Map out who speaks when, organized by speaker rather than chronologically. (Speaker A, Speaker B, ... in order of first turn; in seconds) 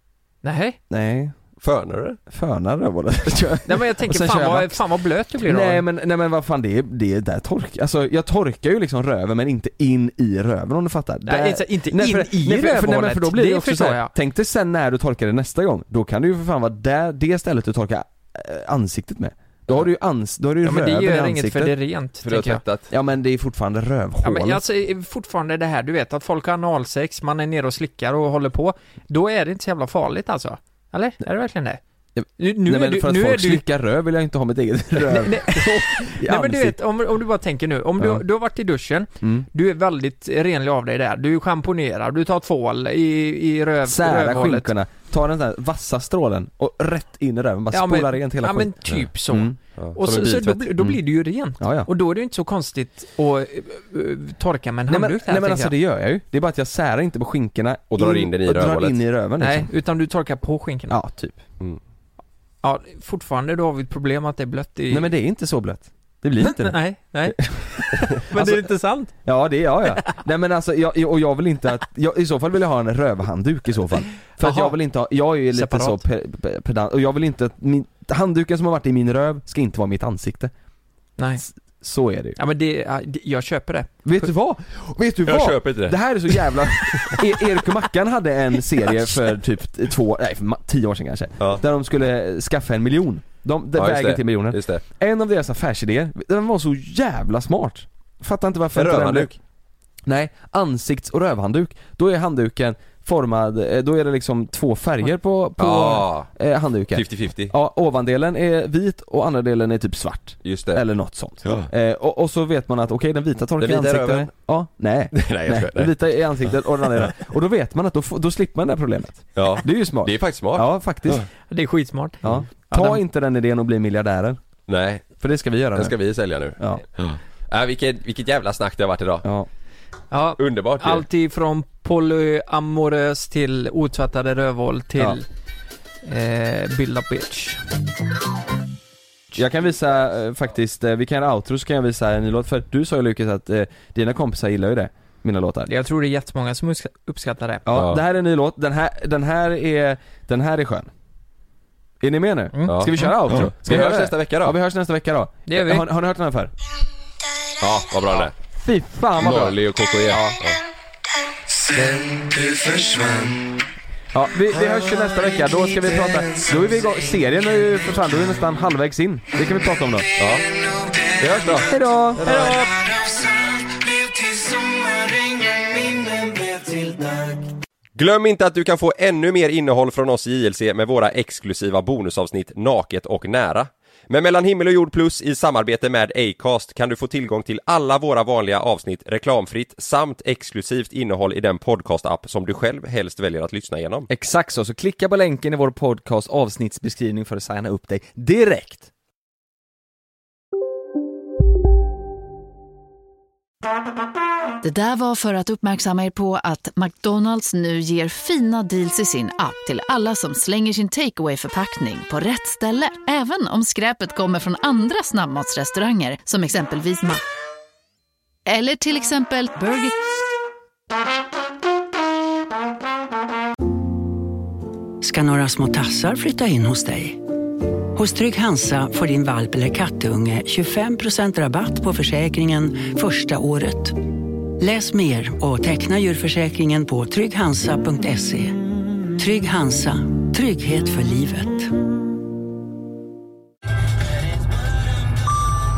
Speaker A: 0.4-0.8, 3.7-5.8, 11.2-14.1, 20.6-22.6, 24.2-31.8, 32.4-33.6, 35.0-44.7, 47.7-55.7, 59.4-61.0, 62.6-65.1, 66.4-69.1, 74.4-74.8, 75.5-76.0, 81.2-81.4, 82.3-84.3, 121.5-123.0, 130.1-135.2, 136.0-137.6, 145.7-147.7, 152.5-153.2, 155.5-155.9
Speaker B: 0.9-1.3, 2.3-4.8, 5.4-21.7, 22.9-24.6, 32.1-36.8, 38.0-38.2, 39.2-39.5, 43.8-48.7, 49.2-49.5, 51.6-51.9, 54.9-59.7, 60.9-61.4, 64.9-80.5, 81.4-82.4, 84.0-99.4, 100.0-121.2, 122.2-124.4, 125.2-126.0, 139.3-145.7, 147.7-150.9, 152.0-156.5, 158.6-160.4, 164.1-170.1, 171.6-172.6, 194.1-198.9
Speaker C: 1.6-2.2, 22.2-22.9, 49.8-50.9, 57.9-59.0, 85.2-87.2, 93.8-94.8, 98.7-99.3, 105.6-106.3, 106.9-107.5, 110.4-110.8, 111.4-111.7, 113.6-114.3, 115.1-115.9, 119.3-121.2, 124.7-125.2, 125.7-129.3, 130.4-131.0, 147.7-148.0, 152.7-154.6, 157.6-158.3, 159.2-160.6, 161.7-163.4, 170.2-170.5, 171.2-172.8, 176.5-177.3, 177.9-194.1
Speaker D: 204.6-217.2, 218.5-219.9
Speaker E: 225.0-227.2, 227.9-238.6, 239.1-241.7